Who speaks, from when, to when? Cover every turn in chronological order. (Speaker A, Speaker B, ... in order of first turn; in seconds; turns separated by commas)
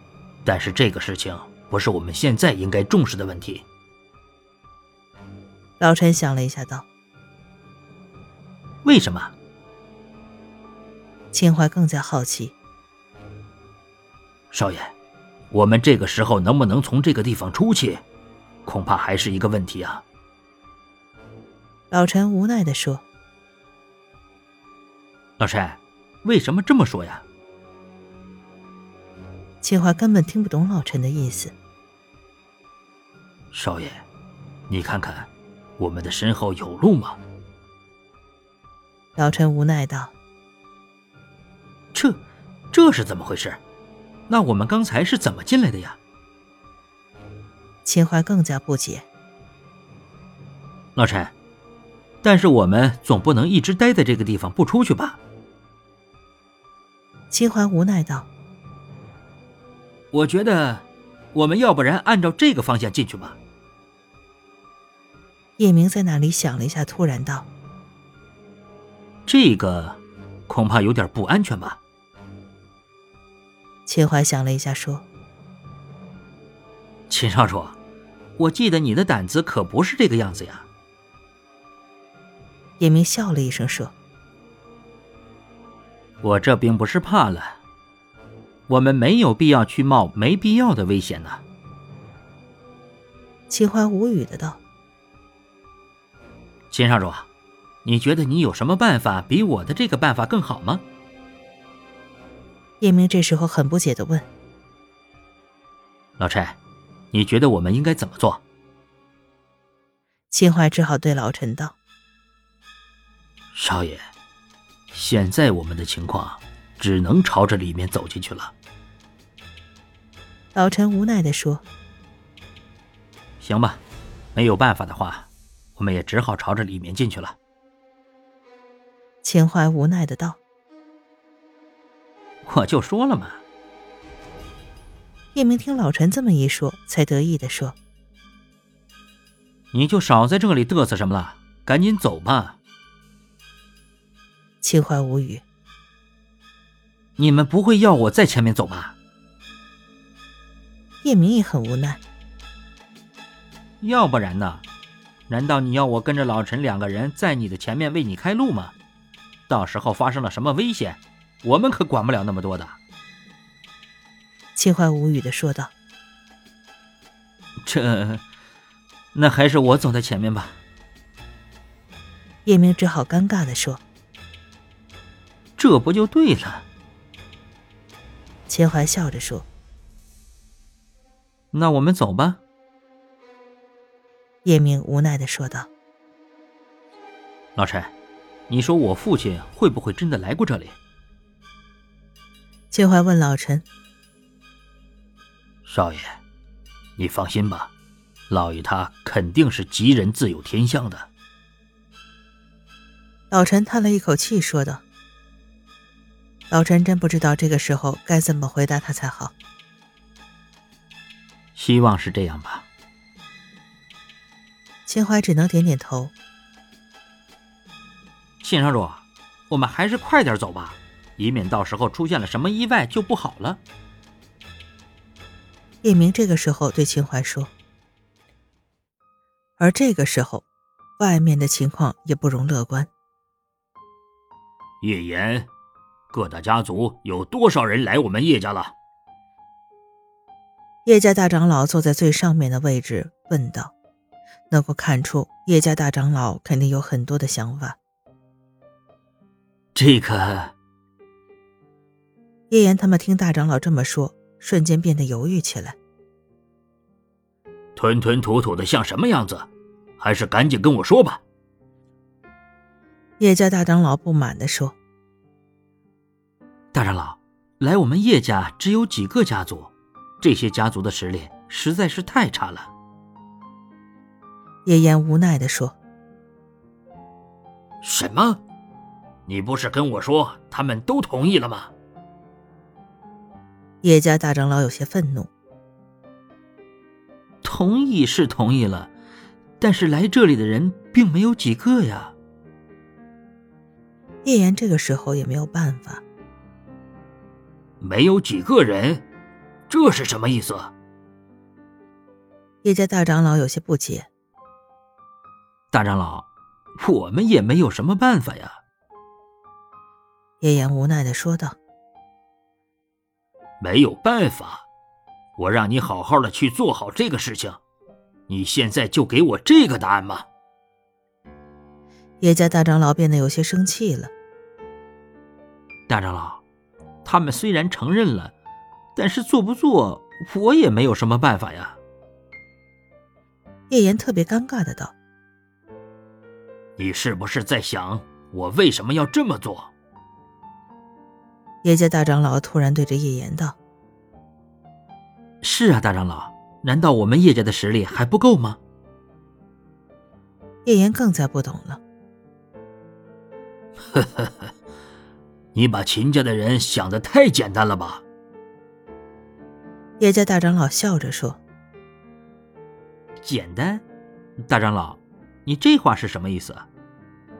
Speaker A: 0.4-3.6, Speaker B: 5.8-6.8, Speaker A: 8.8-9.3, Speaker B: 11.3-12.5, Speaker A: 14.5-14.9, Speaker A: 15.5-18.0, Speaker A: 18.6-20.0, Speaker B: 21.9-23.0, Speaker A: 25.4-27.2, Speaker B: 29.6-31.5, Speaker A: 33.5-34.0, Speaker A: 34.7-37.2, Speaker B: 39.1-40.1, Speaker A: 41.9-43.6, Speaker A: 44.3-46.0, Speaker B: 47.8-49.0, Speaker A: 51.0-51.3, Speaker A: 52.2-55.2, Speaker B: 57.3-58.3, Speaker A: 60.1-63.4, Speaker B: 65.6-67.5, Speaker A: 69.2-71.8, Speaker B: 73.9-75.0, Speaker A: 77.1-77.8, Speaker A: 78.4-80.7, Speaker B: 82.8-83.9, Speaker A: 86.2-87.6, Speaker A: 88.7-91.4, Speaker B: 93.5-94.6, Speaker A: 96.7-97.3, Speaker A: 97.8-100.8, Speaker B: 102.8-104.3, Speaker A: 106.2-106.6, Speaker A: 107.1-108.4, Speaker B: 110.3-111.8, Speaker A: 113.5-114.0, Speaker A: 114.9-118.5, Speaker B: 120.5-121.6, Speaker A: 123.4-123.8, Speaker A: 124.3-127.4, Speaker B: 129.2-130.4, Speaker A: 132.4-133.4, Speaker B: 135.3-137.8, Speaker A: 139.7-142.6, Speaker B: 144.6-145.4, Speaker A: 147.2-148.9, Speaker B: 151.0-152.0, Speaker A: 153.8-154.6, Speaker A: 155.3-158.7, Speaker A: 159.5-162.8, Speaker B: 164.6-165.7, Speaker A: 167.6-168.2, Speaker A: 169.1-170.6, Speaker B: 172.4-173.8, Speaker A: 175.6-176.7, Speaker B: 178.5-179.5, Speaker A: 181.5-182.4, Speaker B: 184.4-185.7, Speaker A: 187.6-187.9, Speaker A: 188.5-190.8, Speaker B: 192.7-193.6, Speaker A: 195.6-196.2, Speaker A: 197.0-197.7, Speaker A: 198.3-201.1, Speaker B: 203.3-204.8, Speaker B: 206.5-209.3, Speaker A: 211.6-212.7, Speaker B: 214.9-216.1, Speaker A: 218.4-223.6, Speaker B: 225.8-227.5, Speaker B: 229.6-230.4, Speaker B: 231.0-232.9, Speaker A: 234.8-235.5, Speaker A: 236.1-238.7, Speaker B: 240.8-243.7, Speaker B: 244.5-247.8, Speaker A: 249.7-250.5, Speaker B: 252.5-255.8, Speaker A: 257.8-261.2, Speaker B: 263.2-264.8, Speaker A: 266.7-272.7, Speaker B: 274.6-275.8, Speaker A: 277.8-278.4, Speaker A: 279.2-281.7, Speaker B: 283.8-285.3, Speaker A: 287.4-288.9, Speaker A: 289.6-292.1, Speaker B: 294.2-296.0, Speaker A: 297.8-299.0, Speaker A: 299.7-300.7, Speaker B: 302.6-304.1, Speaker A: 305.7-308.6, Speaker B: 310.4-311.6, Speaker A: 313.6-314.6, Speaker A: 315.4-317.6, Speaker A: 318.3-320.2, Speaker B: 322.2-324.1, Speaker A: 325.9-326.4, Speaker A: 327.0-328.3, Speaker A: 328.9-331.8, Speaker B: 333.7-334.9, Speaker A: 336.8-339.7, Speaker B: 341.6-343.6, Speaker A: 345.4-348.6, Speaker B: 350.6-351.8, Speaker A: 353.9-354.5, Speaker A: 355.5-358.0, Speaker B: 360.0-361.4, Speaker A: 363.2-363.8, Speaker A: 364.4-366.6